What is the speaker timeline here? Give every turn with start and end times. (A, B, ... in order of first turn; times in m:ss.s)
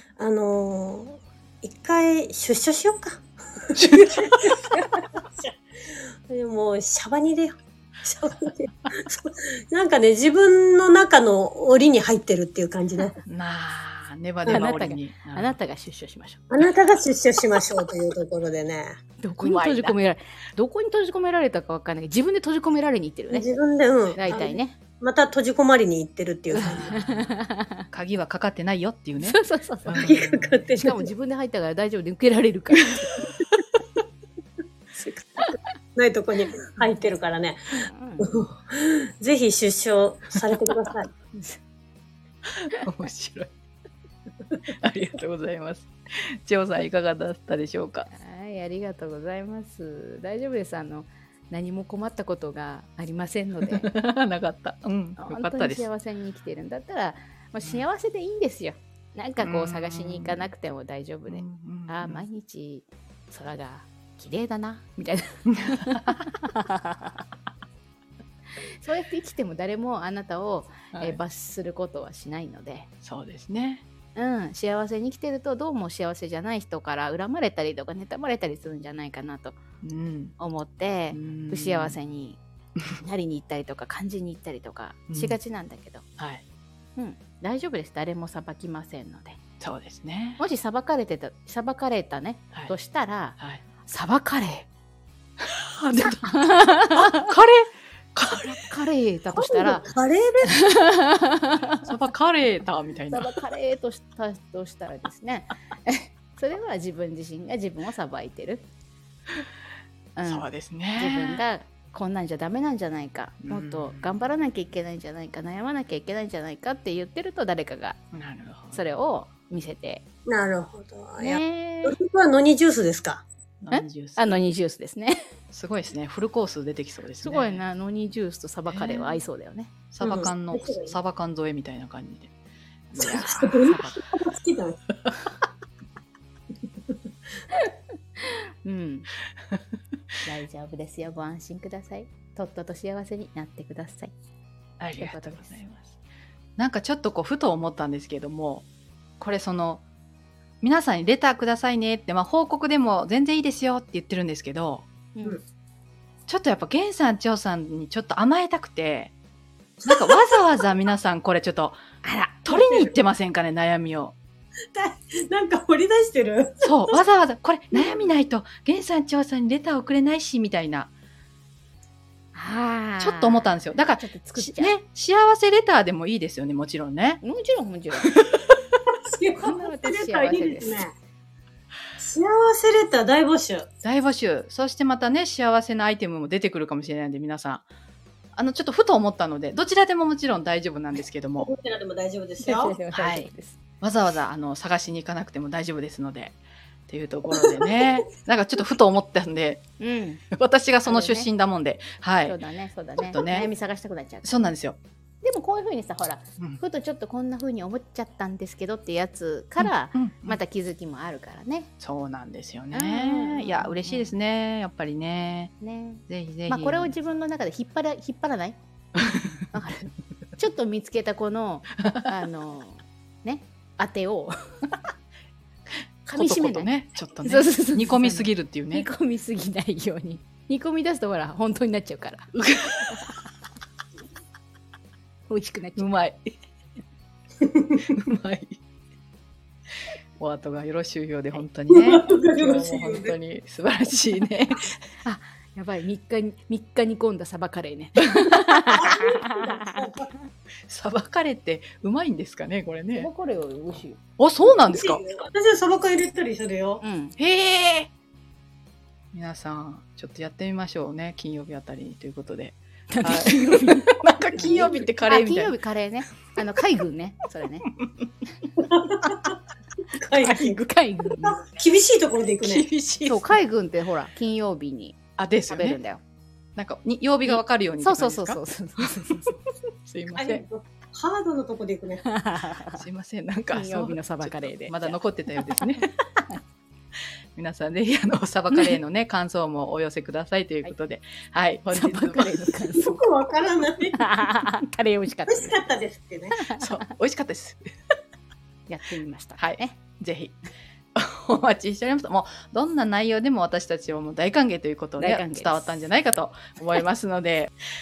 0:00.2-0:13.2 A
0:03.8-0:04.3 B
0:13.3-0:15.6 B
0:14.4-0:14.8 A
0:14.5-0:16.4 C
0:16.5-0:19.0 A
0:19.2-0:23.5 C
0:19.4-0:20.0 B
0:23.3-0:26.9 A
0:24.2-0:24.8 C
0:26.5-0:27.8 C
0:26.6-0:27.3 B
0:27.9-0:30.7 B
0:29.2-0:30.0 C
0:29.9-0:31.1 A
0:30.8-0:33.0 C
0:35.0-0:35.6 C
0:36.0-0:41.1 A
0:37.9-0:38.3 C
0:41.3-0:41.6 C
0:42.6-0:43.5 B
0:44.8-0:48.1 B
0:48.1-0:53.9 C
0:53.7-0:55.9 B
0:55.2-1:07.2 C
0:59.4-1:00.5 B
1:01.3-1:02.3 B
1:05.6-1:06.2 B
1:08.8-1:12.9 C
1:10.9-1:11.2 B
1:13.0-1:13.8 B
1:14.2-1:19.6 C
1:19.8-1:20.4 B
1:20.4-1:22.4 C
1:21.1-1:22.0 B
1:23.0-1:26.0 C
1:25.1-1:25.4 B
1:27.0-1:29.4 C
1:29.6-1:30.4 B
1:30.4-1:34.7 C
1:35.4-1:38.7 B
1:36.3-1:37.3 C
1:38.4-1:39.8 C
1:39.4-1:40.6 A
1:40.5-1:41.9 C
1:41.9-1:43.4 B
1:43.1-1:48.6 C
1:50.2-1:58.0 C
1:50.3-1:51.4 B
1:53.4-1:54.1 B
1:58.1-1:58.8 B
1:58.7-2:00.0 C
2:00.3-2:03.2 A
2:01.2-2:02.0 C
2:03.6-2:04.4 B
2:03.7-2:05.2 C
2:05.5-2:07.6 B
2:07.2-2:09.7 C
2:08.7-2:09.2 B
2:09.9-2:12.3 B
2:10.0-2:10.9 A
2:12.9-2:13.6 B
2:13.0-2:14.8 A
2:13.6-2:14.0 C
2:18.2-2:19.1 C
2:20.2-2:24.1 C
2:24.8-2:26.0 B
2:25.0-2:25.6 C
2:26.6-2:28.7 B
2:29.2-2:29.8 B
2:30.6-2:34.9 B
2:35.2-2:35.4 C
2:36.3-2:39.1 B
2:39.8-2:40.6 A
2:39.9-2:41.8 B
2:42.0-2:42.4 C
2:42.4-2:44.2 B
2:42.5-2:42.9 A
2:44.8-2:47.0 A
2:46.6-2:50.9 B
2:52.3-2:54.8 C
2:53.0-2:57.2 B
2:57.2-2:58.1 C
2:58.0-2:58.5 B
2:59.1-3:00.9 A
2:59.4-3:00.8 C
3:02.0-3:03.7 A
3:03.8-3:07.6 B
3:08.4-3:11.5 B
3:11.4-3:12.8 A
3:12.4-3:13.6 C
3:12.9-3:13.3 B
3:13.8-3:19.6 B
3:17.3-3:17.9 A
3:19.8-3:20.2 C
3:20.3-3:22.4 B
3:20.8-3:21.3 C
3:22.2-3:24.5 C
3:23.0-3:23.5 B
3:24.2-3:24.8 B
3:25.2-3:31.7 C
3:29.6-3:30.4 B
3:31.8-3:35.5 B
3:32.7-3:34.1 C
3:35.6-3:38.6 C
3:36.1-3:36.9 B
3:39.5-3:44.3 C
3:46.1-3:46.7 C
3:46.1-3:48.9 B
3:47.2-3:52.3 C
3:52.4-3:53.0 B
3:55.3-3:55.9 C
3:55.8-3:56.3 B
3:57.5-3:57.8 A
3:57.9-3:58.6 B
4:00.2-4:04.7 B
4:01.7-4:03.2 A
4:05.0-4:09.7 C
4:08.7-4:10.1 A
4:10.6-4:13.1 B
4:13.0-4:14.0 C
4:14.2-4:15.0 B
4:14.7-4:16.8 A
4:16.8-4:17.2 C
4:17.2-4:17.9 B
4:19.1-4:25.6 B
4:22.9-4:27.7 C
4:28.6-4:29.4 A
4:30.0-4:30.6 A
4:30.2-4:31.4 C
4:31.2-4:32.7 A
4:32.4-4:33.4 B
4:33.0-4:36.0 C
4:35.2-4:35.8 B
4:36.6-4:38.4 B
4:37.3-4:39.4 C
4:39.8-4:40.4 B
4:40.1-4:42.0 A
4:42.0-4:42.8 C
4:42.8-4:45.9 B
4:43.5-4:45.8 C
4:47.4-4:52.5 B
4:51.7-4:53.0 C
4:52.8-4:54.0 A
4:54.0-4:55.6 C
4:55.3-4:56.4 A
4:56.6-4:57.7 B
4:58.7-4:59.8 C
4:59.4-5:00.4 B
5:01.0-5:07.5 B
5:05.0-5:05.8 C